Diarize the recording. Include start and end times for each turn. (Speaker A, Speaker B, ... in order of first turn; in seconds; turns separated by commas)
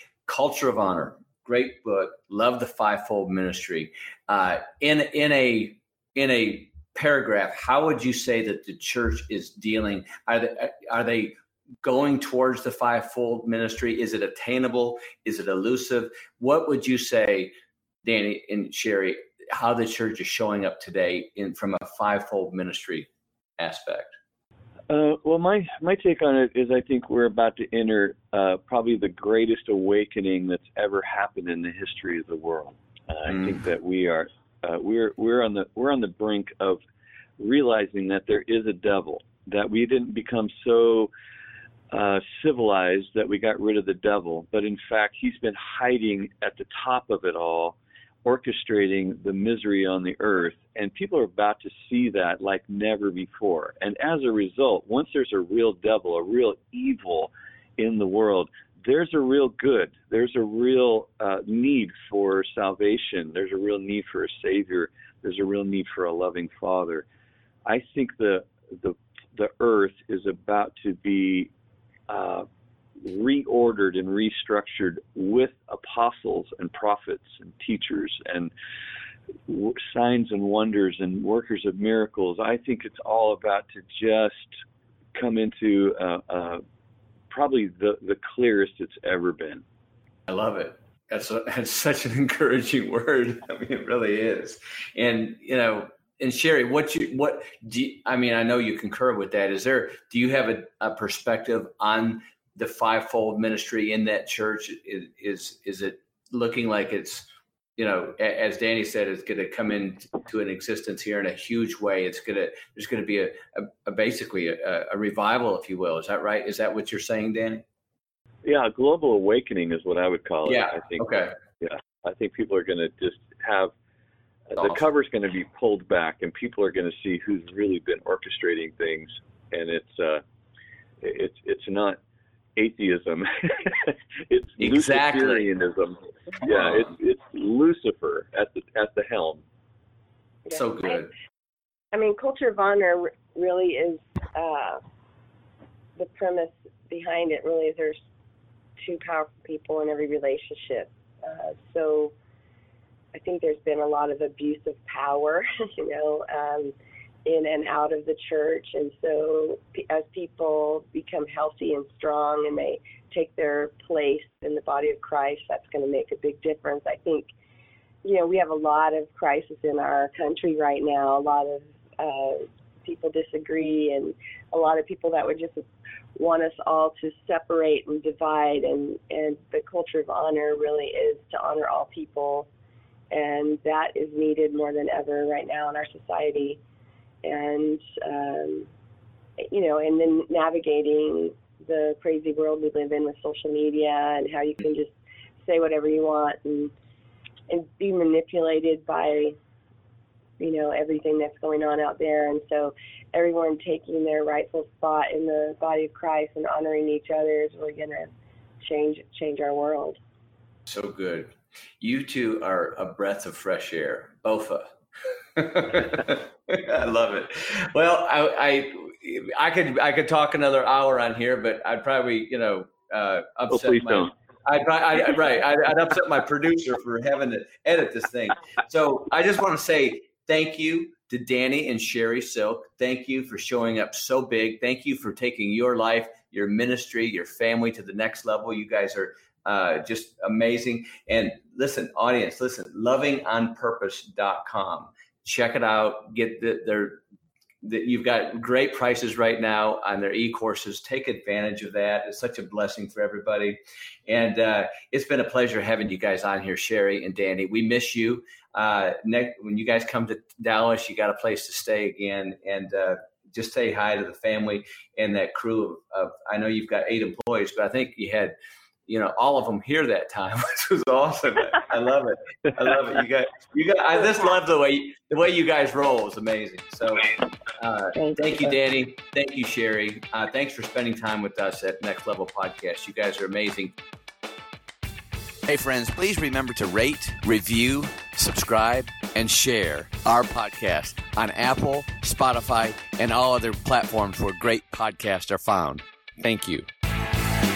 Speaker A: 0.3-17.5, Speaker A: 18.0-24.1, Speaker B: 24.9-36.8, Speaker A: 33.3-33.6, Speaker B: 37.4-41.1, Speaker B: 41.9-67.1, Speaker B: 67.7-71.5, Speaker B: 72.1-72.5, Speaker B: 73.0-78.5, Speaker B: 79.5-84.6, Speaker B: 85.1-86.6, Speaker B: 87.3-89.6, Speaker A: 90.3-117.6, Speaker B: 118.5-121.1, Speaker A: 120.5-121.4, Speaker B: 121.6-123.7, Speaker B: 124.5-130.2, Speaker A: 124.6-124.9, Speaker B: 131.0-132.0, Speaker B: 132.6-139.4, Speaker A: 134.6-135.5, Speaker A: 136.4-136.9, Speaker C: 140.5-141.1, Speaker A: 140.5-141.1, Speaker C: 141.9-144.8, Speaker C: 146.0-148.0, Speaker C: 148.8-152.1, Speaker C: 153.1-167.3, Speaker C: 168.0-182.5, Speaker C: 183.1-186.6, Speaker C: 187.2-188.7, Speaker C: 189.4-196.7, Speaker C: 197.5-199.4, Speaker C: 200.4-208.1, Speaker C: 208.6-210.0, Speaker A: 210.7-214.7, Speaker A: 215.3-247.0, Speaker B: 223.5-224.1, Speaker A: 247.6-268.4, Speaker A: 268.9-283.8, Speaker C: 277.9-278.5, Speaker A: 285.5-296.7